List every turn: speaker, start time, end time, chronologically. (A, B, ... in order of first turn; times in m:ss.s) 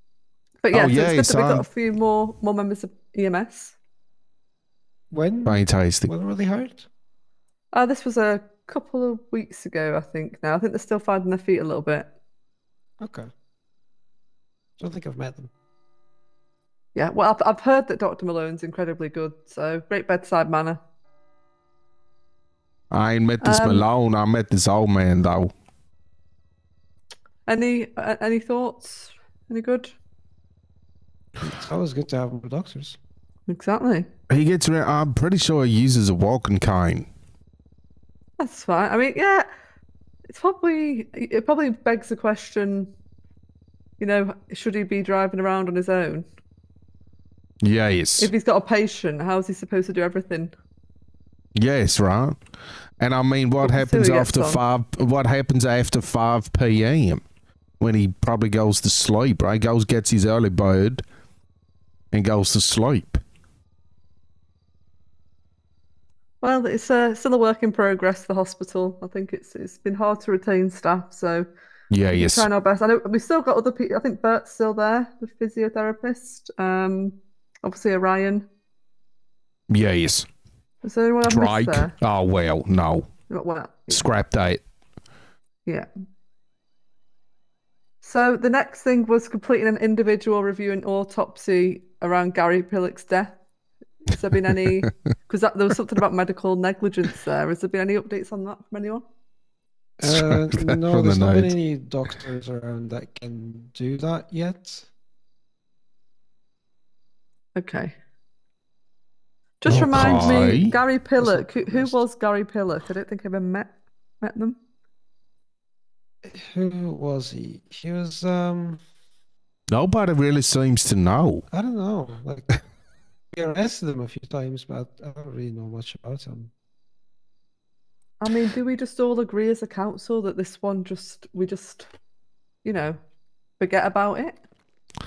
0:00.6-0:03.8 A
0:00.7-0:01.7 B
0:05.1-0:06.9 C
0:05.4-0:06.1 B
0:07.7-0:12.1 A
0:13.0-0:13.3 C
0:14.8-0:15.5 C
0:17.0-0:20.8 A
0:22.9-0:25.5 B
0:23.4-0:23.9 A
0:27.5-0:29.9 A
0:31.4-0:33.0 C
0:33.5-0:34.1 A
0:34.3-0:37.1 B
0:38.4-0:39.5 A
0:40.3-0:42.9 A
0:44.0-0:46.3 A
0:47.6-0:48.3 B
0:48.2-0:50.5 A
0:51.6-0:52.4 B
0:53.0-0:57.2 B
0:53.6-0:54.6 A
0:57.8-1:01.0 B
1:02.1-1:03.2 B
1:06.4-1:11.5 A
1:11.9-1:12.5 B
1:12.1-1:18.4 A
1:19.7-1:20.3 B
1:20.8-1:21.9 A
1:21.2-1:23.1 B
1:23.3-1:24.1 A
1:23.9-1:24.6 B
1:28.0-1:33.4 A
1:34.1-1:39.0 A
1:40.0-1:44.9 C
1:40.0-1:41.6 B
1:47.6-1:47.9 A
1:49.6-1:53.7 A
1:49.7-1:50.8 B
1:49.7-1:52.0 C
1:54.2-1:54.6 A
1:56.2-1:58.8 C
1:59.7-2:01.4 B
2:01.5-2:02.6 C
2:03.3-2:06.5 C
2:08.2-2:11.9 A
2:12.6-2:13.0 A
2:13.6-2:14.4 A